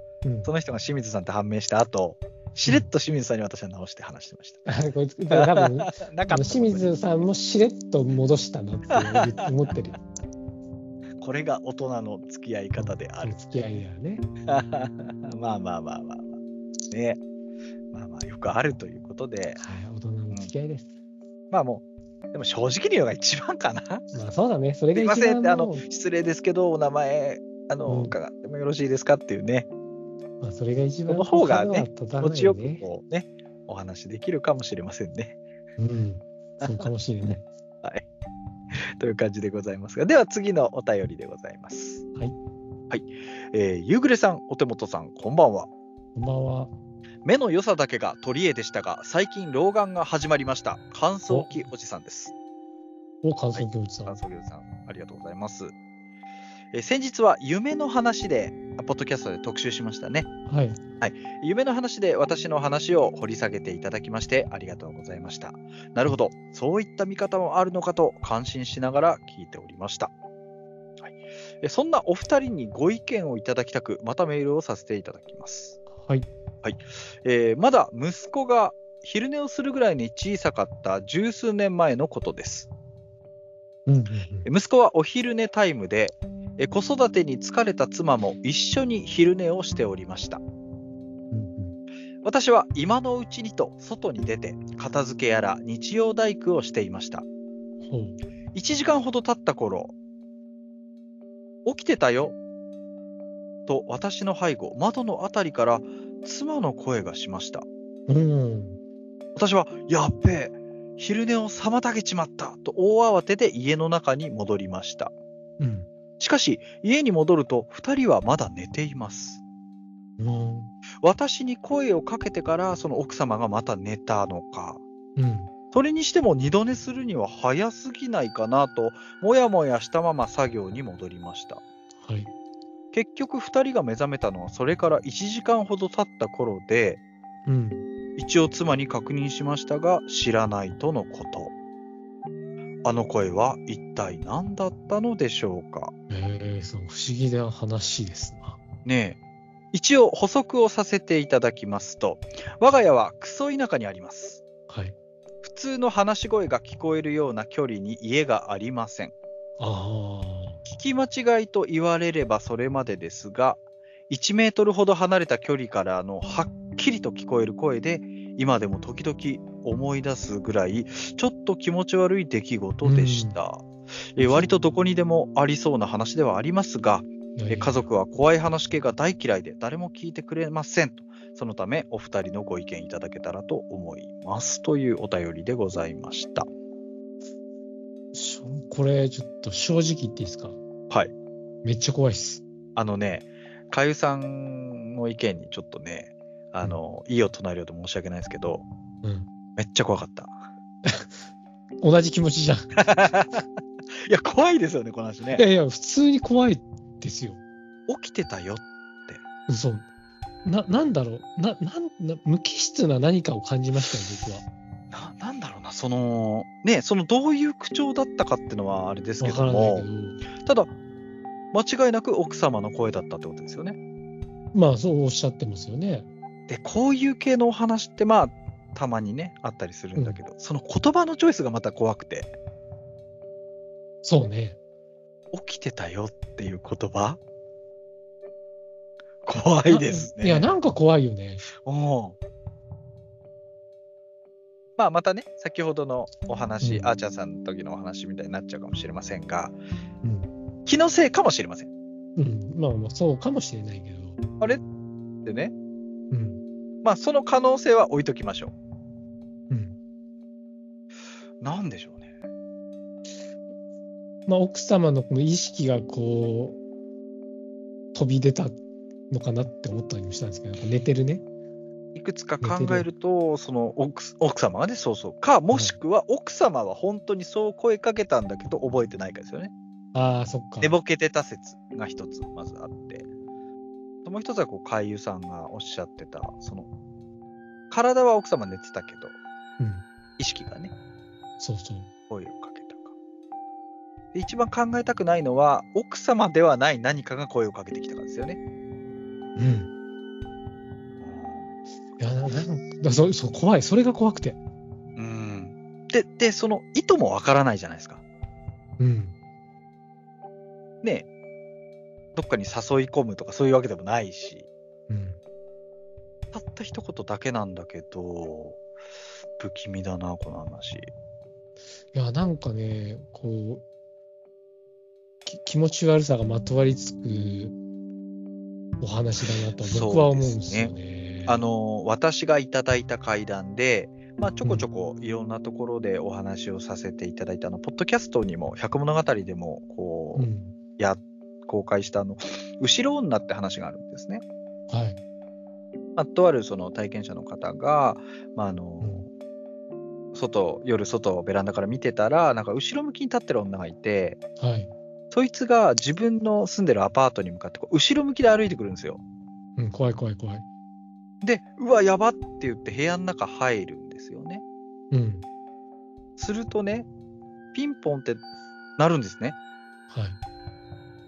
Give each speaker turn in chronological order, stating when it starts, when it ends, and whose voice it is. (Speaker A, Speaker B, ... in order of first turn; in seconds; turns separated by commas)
Speaker A: 0.2-0.5, Speaker B: 0.5-4.7, Speaker A: 4.7-10.0, Speaker B: 5.3-6.9, Speaker B: 8.9-9.5, Speaker B: 11.2-13.4, Speaker A: 12.8-14.3, Speaker B: 14.4-16.4, Speaker B: 16.9-17.2, Speaker B: 17.9-19.6, Speaker A: 19.6-20.9, Speaker B: 21.5-24.1, Speaker A: 24.1-25.9, Speaker B: 24.9-29.7, Speaker A: 27.9-28.1, Speaker A: 30.4-32.9, Speaker B: 31.1-35.4, Speaker A: 35.8-37.5, Speaker B: 38.8-42.0, Speaker B: 42.9-45.7, Speaker A: 46.1-46.7, Speaker B: 47.2-52.3, Speaker A: 51.3-51.5, Speaker A: 53.2-54.2, Speaker B: 53.5-55.7, Speaker B: 56.7-60.3, Speaker A: 60.5-60.8, Speaker B: 61.0-70.1, Speaker B: 71.0-75.8, Speaker A: 75.9-76.3, Speaker B: 76.6-82.7, Speaker A: 83.9-84.5, Speaker B: 84.5-90.4, Speaker A: 91.3-91.8, Speaker B: 92.2-97.2, Speaker A: 97.8-98.2, Speaker B: 98.5-99.9, Speaker B: 101.7-102.4, Speaker B: 103.7-107.7, Speaker A: 108.1-108.8, Speaker B: 109.3-115.1, Speaker A: 115.6-115.9, Speaker B: 116.2-119.4, Speaker A: 120.2-120.7, Speaker B: 121.0-124.8, Speaker A: 125.2-125.5, Speaker B: 125.7-131.6, Speaker A: 132.0-132.3, Speaker B: 132.9-137.0, Speaker A: 137.5-137.8, Speaker B: 138.2-141.5, Speaker B: 142.8-145.9, Speaker A: 146.1-148.6, Speaker B: 148.8-149.2, Speaker B: 149.7-154.4, Speaker A: 154.7-154.9, Speaker B: 155.4-159.1, Speaker A: 159.6-160.6, Speaker B: 160.7-186.5, Speaker A: 172.8-173.4, Speaker A: 174.2-174.5, Speaker A: 177.4-177.8, Speaker A: 188.1-190.6, Speaker A: 191.6-192.4, Speaker B: 192.8-198.7, Speaker A: 199.0-199.3, Speaker B: 199.6-200.4, Speaker A: 200.8-201.1, Speaker A: 201.8-202.7, Speaker B: 202.8-203.4, Speaker B: 204.0-205.4, Speaker A: 205.3-207.4, Speaker B: 207.9-209.2, Speaker A: 209.5-209.9, Speaker A: 210.4-214.5, Speaker B: 214.9-220.7, Speaker A: 219.2-220.2, Speaker B: 221.5-223.8, Speaker A: 224.5-226.1, Speaker B: 226.5-232.3, Speaker A: 234.0-234.6, Speaker B: 235.3-237.2, Speaker B: 239.2-240.5, Speaker A: 239.7-241.5, Speaker B: 241.6-242.2, Speaker B: 244.8-249.6, Speaker A: 246.6-246.9, Speaker A: 250.0-250.3, Speaker B: 250.7-251.7, Speaker A: 252.2-254.2, Speaker B: 255.2-255.5, Speaker A: 256.1-256.4, Speaker B: 256.8-258.5, Speaker A: 259.5-259.8, Speaker B: 261.4-262.1, Speaker A: 264.3-266.6, Speaker A: 267.9-268.6, Speaker A: 269.1-271.2, Speaker B: 271.9-279.5, Speaker A: 272.4-272.9, Speaker A: 279.9-280.8, Speaker B: 280.6-283.1, Speaker B: 284.1-286.7, Speaker B: 287.7-289.2, Speaker A: 289.6-289.9, Speaker B: 290.2-290.7, Speaker A: 291.4-291.9, Speaker B: 292.1-292.9, Speaker B: 294.1-298.4, Speaker A: 299.4-299.7, Speaker B: 301.0-301.5, Speaker A: 302.0-304.4, Speaker B: 305.0-308.0, Speaker A: 308.8-309.1, Speaker B: 312.1-314.5, Speaker A: 314.9-315.2, Speaker B: 316.3-318.6, Speaker B: 319.4-320.9, Speaker A: 321.9-323.6, Speaker A: 325.3-327.6, Speaker A: 328.8-331.4, Speaker B: 329.6-330.8, Speaker B: 331.3-344.2, Speaker A: 340.1-340.6, Speaker A: 344.7-345.0, Speaker B: 346.0-349.1, Speaker B: 350.1-354.2, Speaker A: 354.4-354.7, Speaker B: 355.1-359.0, Speaker A: 359.6-360.4, Speaker B: 361.2-364.4, Speaker A: 364.9-365.2, Speaker B: 366.2-366.9, Speaker B: 367.5-368.2, Speaker B: 368.8-369.4, Speaker A: 369.9-370.2